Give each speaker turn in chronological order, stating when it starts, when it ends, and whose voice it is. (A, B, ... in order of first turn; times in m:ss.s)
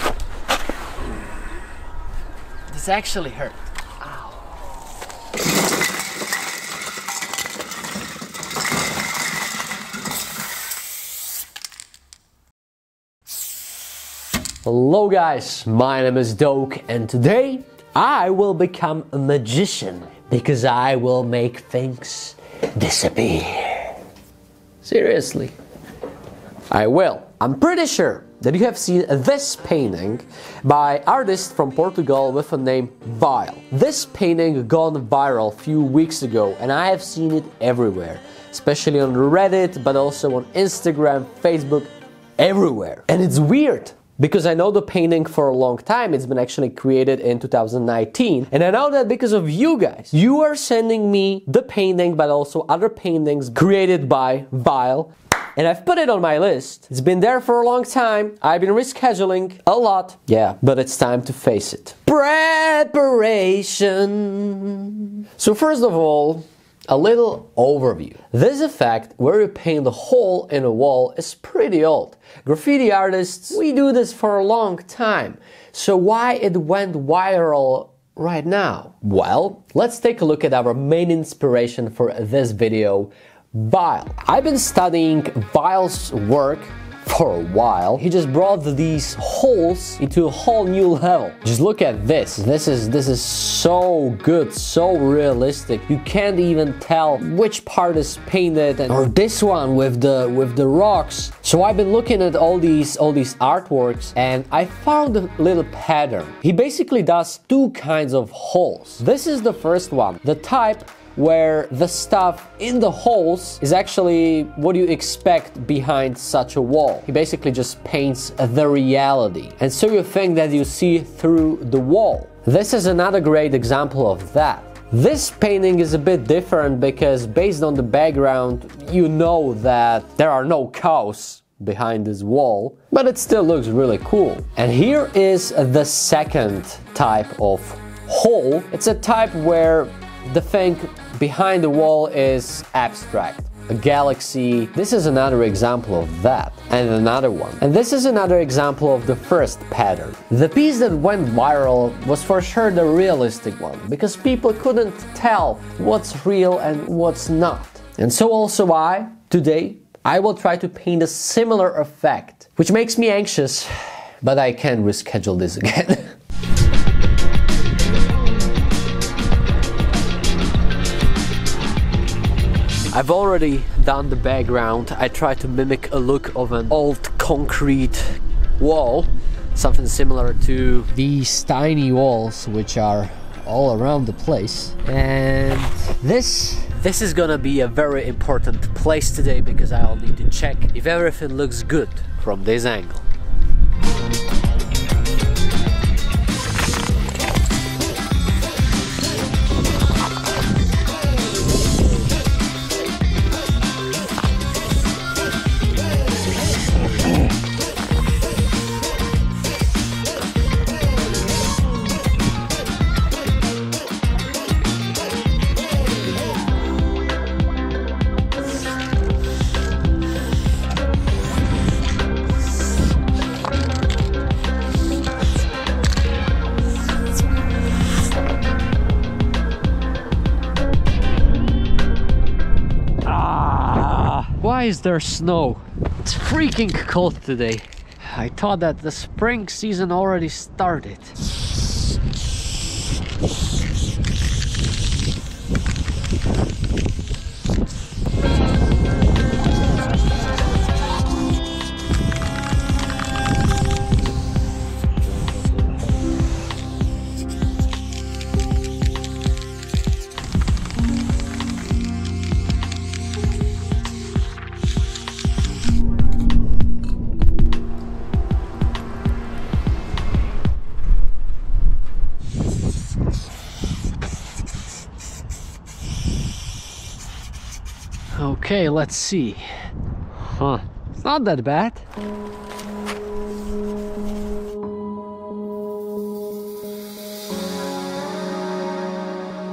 0:02.7-0:04.2 A
0:14.6-0:24.0 A
0:24.8-0:25.5 A
0:26.7-2:46.1 A
2:52.9-3:13.0 A
3:53.0-4:01.2 A
4:38.2-4:39.6 A
4:40.2-4:41.8 A